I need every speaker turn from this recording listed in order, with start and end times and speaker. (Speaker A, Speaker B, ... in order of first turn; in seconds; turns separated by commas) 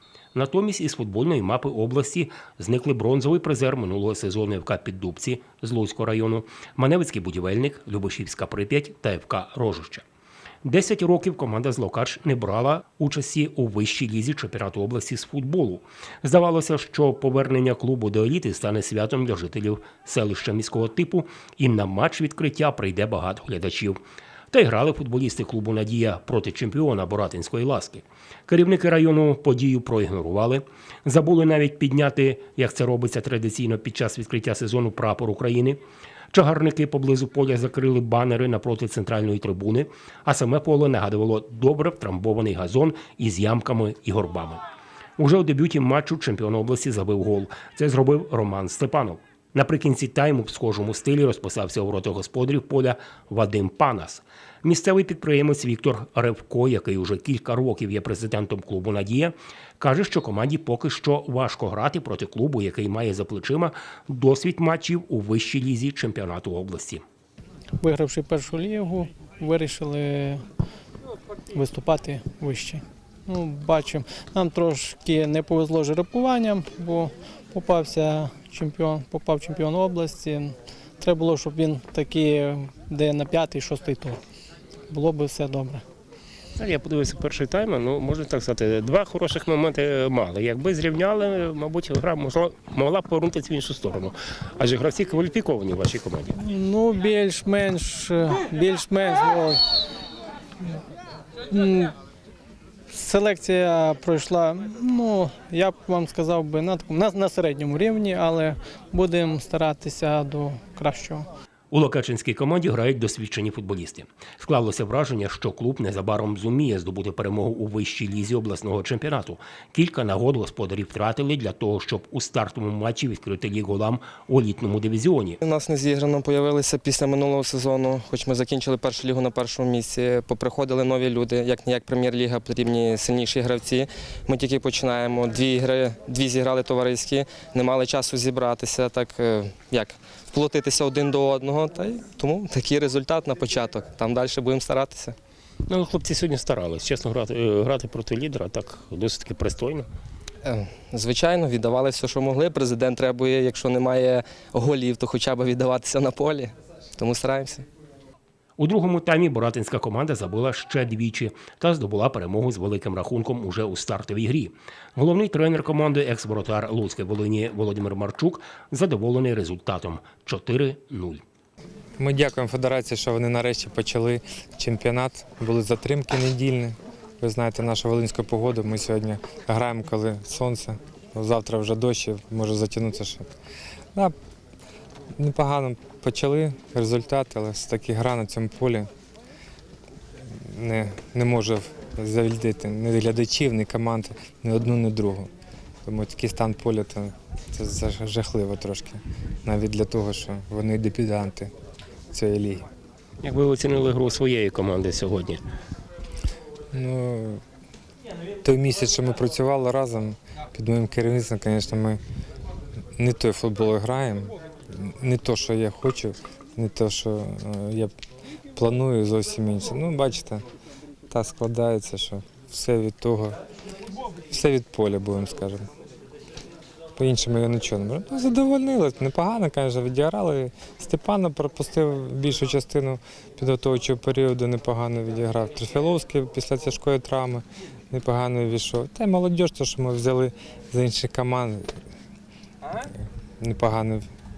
Speaker A: 0.3-10.0, Speaker A: 10.6-24.0, Speaker A: 24.5-35.8, Speaker A: 36.3-44.6, Speaker A: 45.2-67.0, Speaker B: 67.8-70.5, Speaker B: 71.5-84.2, Speaker B: 84.9-85.8, Speaker A: 86.6-96.3, Speaker B: 96.3-99.6, Speaker B: 101.5-102.0, Speaker B: 102.9-111.3, Speaker A: 111.7-125.4, Speaker C: 125.4-145.2, Speaker A: 145.7-149.9, Speaker C: 150.4-157.7, Speaker A: 158.6-171.2, Speaker D: 172.0-183.3, Speaker D: 185.2-188.9, Speaker D: 190.3-195.3, Speaker D: 195.8-201.5, Speaker D: 202.1-202.7, Speaker A: 203.2-205.4, Speaker D: 206.7-207.4, Speaker D: 208.4-212.0, Speaker D: 213.0-217.9, Speaker D: 218.6-220.4, Speaker D: 221.1-223.4, Speaker D: 224.3-225.7, Speaker D: 227.0-241.8, Speaker D: 242.9-244.1